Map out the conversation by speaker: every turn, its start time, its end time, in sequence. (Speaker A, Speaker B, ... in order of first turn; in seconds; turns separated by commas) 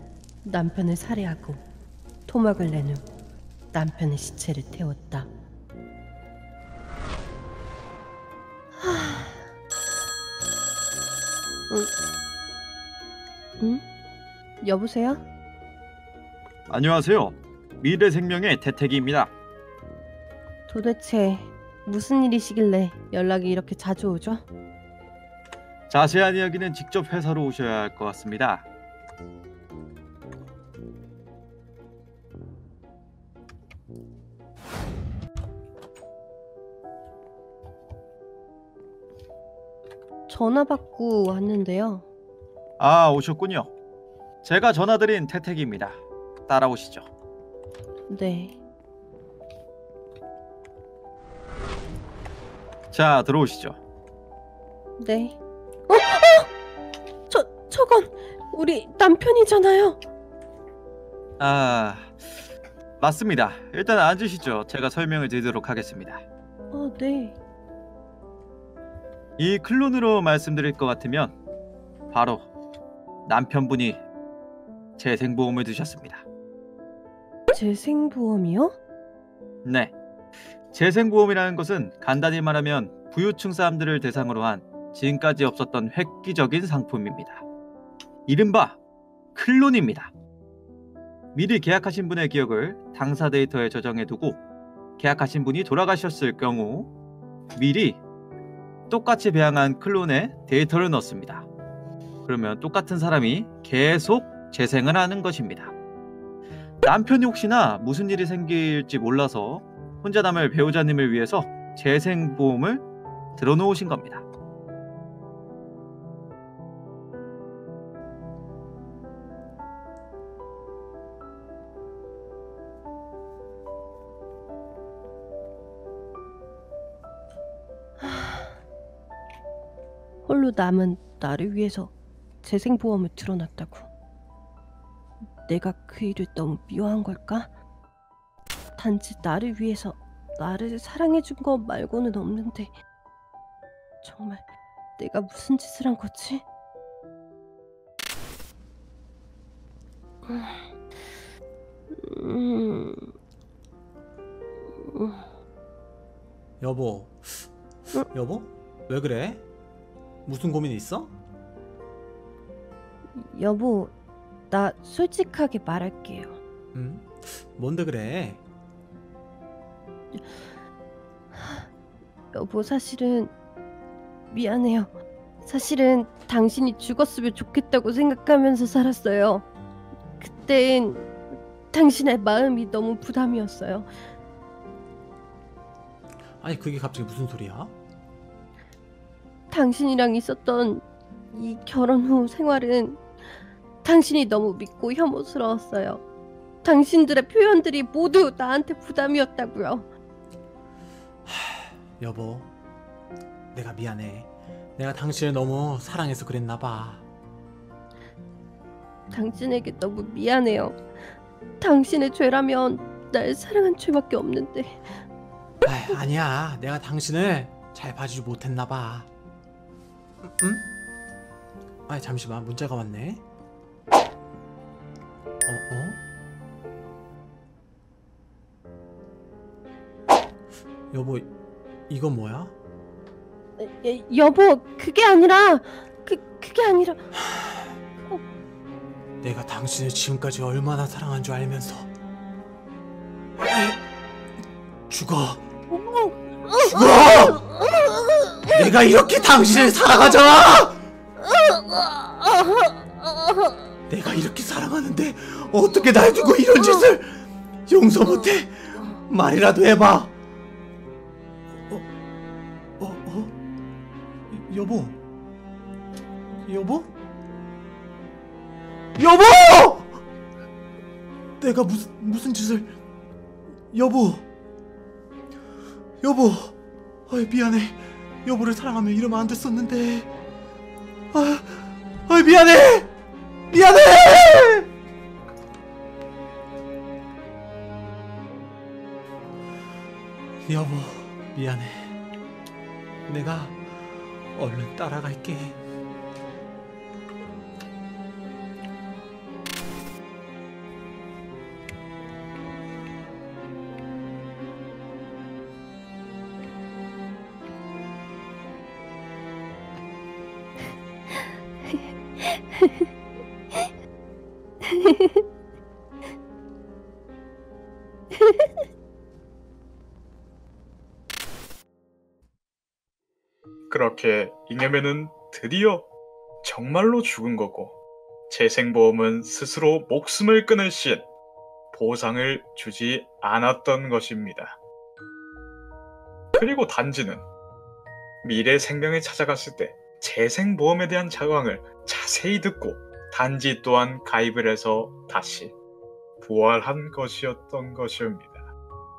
Speaker A: 0.4-1.6, Speaker A: 2.2-3.1, Speaker A: 3.7-5.3, Speaker A: 8.8-9.5, Speaker A: 13.6-13.8, Speaker A: 14.6-15.2, Speaker B: 16.7-19.3, Speaker A: 20.7-24.4, Speaker B: 25.9-28.6, Speaker A: 40.3-42.0, Speaker B: 42.8-43.7, Speaker B: 44.4-47.1, Speaker A: 48.1-48.6, Speaker B: 52.9-53.8, Speaker A: 55.0-55.4, Speaker A: 55.9-56.5, Speaker A: 57.3-60.0, Speaker B: 61.4-62.1, Speaker B: 63.0-66.2, Speaker A: 66.7-67.4, Speaker B: 69.4-71.4, Speaker B: 72.1-72.5, Speaker B: 73.2-74.0, Speaker B: 75.0-76.2, Speaker A: 77.5-78.8, Speaker B: 79.6-79.9, Speaker B: 80.7-87.4, Speaker B: 88.2-88.8, Speaker B: 89.3-90.1, Speaker B: 91.3-94.4, Speaker B: 95.0-96.9, Speaker B: 97.5-98.0, Speaker B: 98.9-101.5, Speaker B: 102.2-105.7, Speaker B: 106.8-112.8, Speaker B: 113.4-114.2, Speaker A: 128.0-128.6, Speaker A: 130.2-133.9, Speaker A: 135.4-137.5, Speaker A: 138.8-142.7, Speaker A: 144.0-144.5, Speaker A: 145.0-146.4, Speaker A: 150.3-150.7, Speaker A: 151.9-153.1, Speaker A: 154.8-155.2, Speaker C: 156.6-157.5, Speaker C: 158.1-159.4, Speaker C: 160.2-161.1, Speaker A: 163.1-163.9, Speaker A: 164.5-166.4, Speaker C: 166.7-168.4, Speaker A: 170.1-170.4, Speaker A: 171.3-171.7, Speaker A: 172.3-173.3, Speaker A: 174.3-179.5, Speaker A: 180.2-181.1, Speaker A: 181.7-183.9, Speaker C: 186.4-187.7, Speaker A: 189.5-193.0, Speaker A: 193.8-196.0, Speaker A: 196.6-199.9, Speaker C: 201.2-202.5, Speaker C: 203.5-207.0, Speaker A: 209.1-210.8, Speaker A: 211.6-215.0, Speaker C: 215.6-219.1, Speaker C: 220.3-220.7, Speaker C: 221.9-223.2, Speaker C: 225.5-226.0, Speaker C: 230.9-231.3, Speaker C: 231.9-232.5, Speaker A: 233.6-237.1, Speaker C: 239.2-241.9, Speaker C: 243.4-243.8, Speaker C: 244.9-245.4, Speaker A: 245.7-248.5, Speaker C: 246.6-247.4, Speaker C: 248.5-250.8, Speaker A: 251.2-253.6, Speaker C: 253.9-260.1, Speaker C: 262.8-263.4, Speaker C: 264.3-265.0, Speaker C: 266.5-266.9, Speaker C: 269.0-270.0, Speaker C: 271.4-272.7, Speaker C: 273.7-274.2, Speaker C: 276.0-276.6, Speaker C: 277.1-280.1, Speaker C: 281.1-282.9, Speaker C: 283.5-284.7, Speaker C: 290.5-292.0, Speaker C: 293.1-295.6, Speaker A: 311.7-312.9, Speaker A: 314.6-315.2, Speaker A: 318.1-318.6, Speaker D: 323.7-325.9, Speaker D: 326.4-327.8, Speaker D: 328.3-331.1, Speaker D: 331.7-334.6, Speaker D: 336.4-337.2, Speaker D: 338.2-345.5, Speaker D: 346.2-348.5